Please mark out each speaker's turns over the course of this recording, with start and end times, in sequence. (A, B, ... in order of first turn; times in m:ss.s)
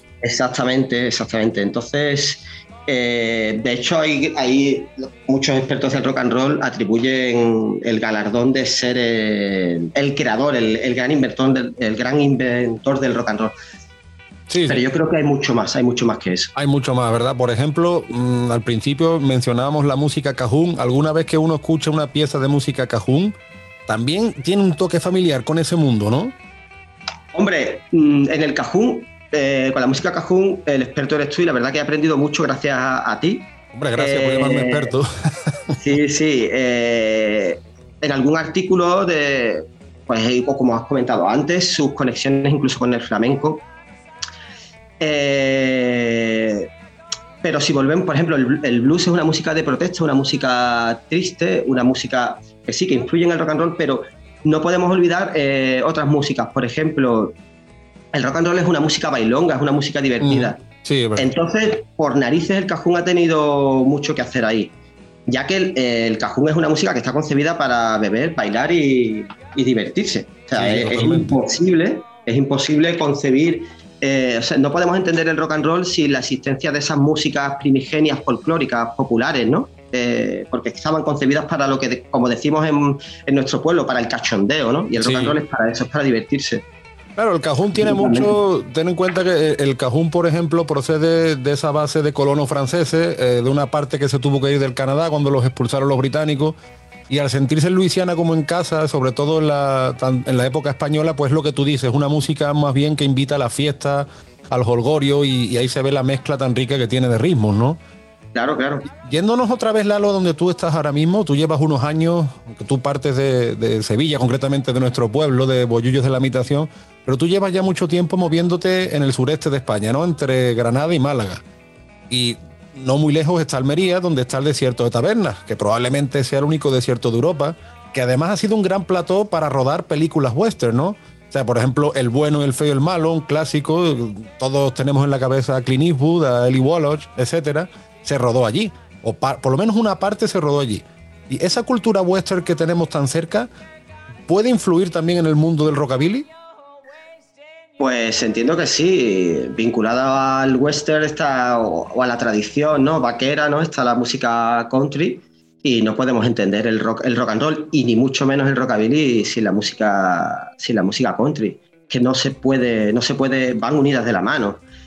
0:00.2-0:13.5 A
0:14.5-0:14.8 B
0:14.7-0:16.5 A
0:16.6-0:23.3 B
0:23.9-0:26.3 B
0:27.3-0:34.9 A
0:33.7-0:35.8 B
0:35.8-0:43.6 A
0:45.0-0:46.7 A
0:47.4-0:57.4 A
0:58.1-1:00.6 A
1:00.2-1:01.3 B
1:01.2-1:04.7 A
1:05.3-1:26.6 A
1:10.5-1:11.4 B
1:25.0-1:25.4 B
1:27.2-1:36.6 B
1:27.8-1:28.3 A
1:37.1-1:47.8 B
1:48.3-1:48.8 A
1:48.9-2:01.4 B
2:02.1-2:23.5 B
2:24.3-2:26.3 B
2:27.8-2:44.6 A